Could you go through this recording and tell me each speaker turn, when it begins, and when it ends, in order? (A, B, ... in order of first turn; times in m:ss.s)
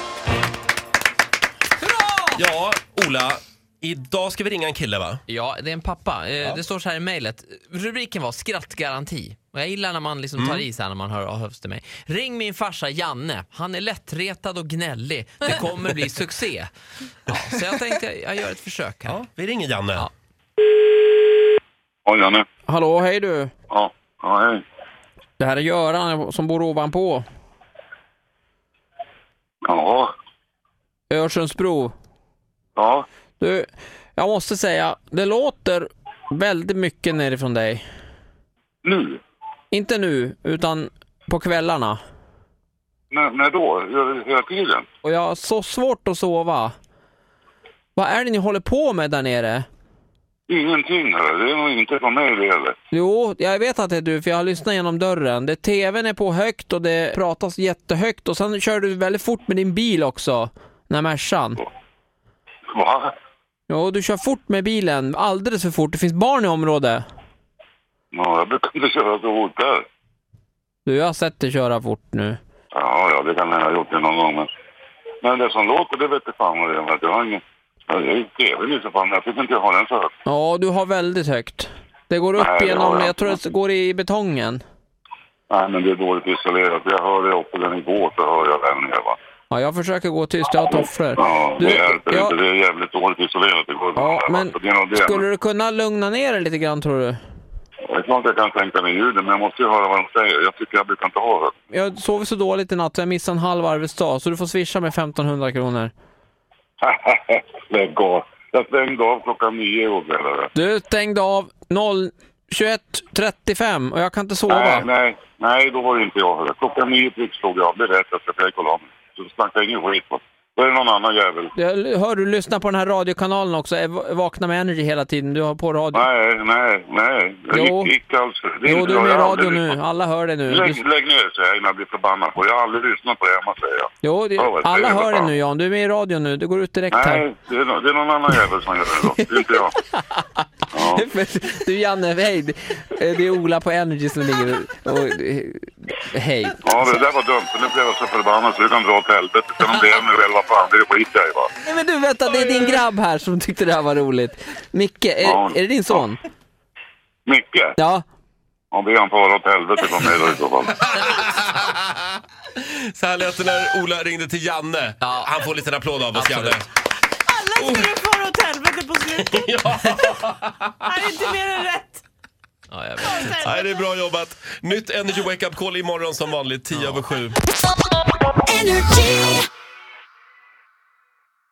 0:02.4-0:05.2 A
0:05.3-0:16.7 B
0:10.4-0:10.6 A
0:17.3-0:19.2 B
0:19.0-0:20.1 A
0:22.0-0:22.4 C
0:22.7-0:23.5 D
0:23.7-0:24.6 C
0:25.4-0:27.2 D
0:29.6-0:30.1 C
0:31.1-0:31.9 D
0:32.8-0:33.0 C
0:33.4-0:37.8 D
0:38.8-0:39.2 C
0:39.7-0:42.0 D
0:43.1-0:44.8 C
0:45.0-0:46.7 D
0:48.0-0:49.7 D
0:50.5-0:52.7 C
0:52.9-1:01.6 D
1:02.7-1:03.1 C
1:03.7-1:07.0 D
1:08.1-1:09.8 C
1:10.8-1:12.4 D
1:12.7-1:14.5 C
1:15.2-1:20.1 C
1:20.2-1:24.6 D
1:22.4-1:23.4 C
1:25.5-1:29.2 C
1:29.5-1:32.3 D
1:31.2-1:35.2 C
1:34.0-1:37.2 D
1:37.8-1:41.5 C
1:41.7-1:45.9 D
1:46.8-1:50.5 C
1:50.5-1:54.9 D
1:54.5-2:01.5 C
2:01.5-2:06.0 D
2:05.9-2:09.8 C
2:07.5-2:07.9 D
2:08.6-2:10.8 D
2:10.5-2:15.3 C
2:14.0-2:17.2 D
2:16.9-2:19.7 C
2:19.0-2:26.6 D
2:20.7-2:21.1 C
2:26.6-2:31.5 C
2:31.6-2:36.2 D
2:35.2-2:36.0 C
2:37.2-2:37.8 C
2:37.8-2:38.0 D
2:38.7-2:40.8 C
2:40.8-2:41.8 A
2:42.5-2:46.6 A
2:45.0-2:45.3 B
2:46.1-2:46.6 B
2:47.6-2:48.0 A
2:47.9-2:49.3 E
2:49.1-2:50.9 A
2:51.1-2:51.9 E
2:52.7-2:53.5 B
2:53.0-2:57.4 A
2:58.5-2:59.4 E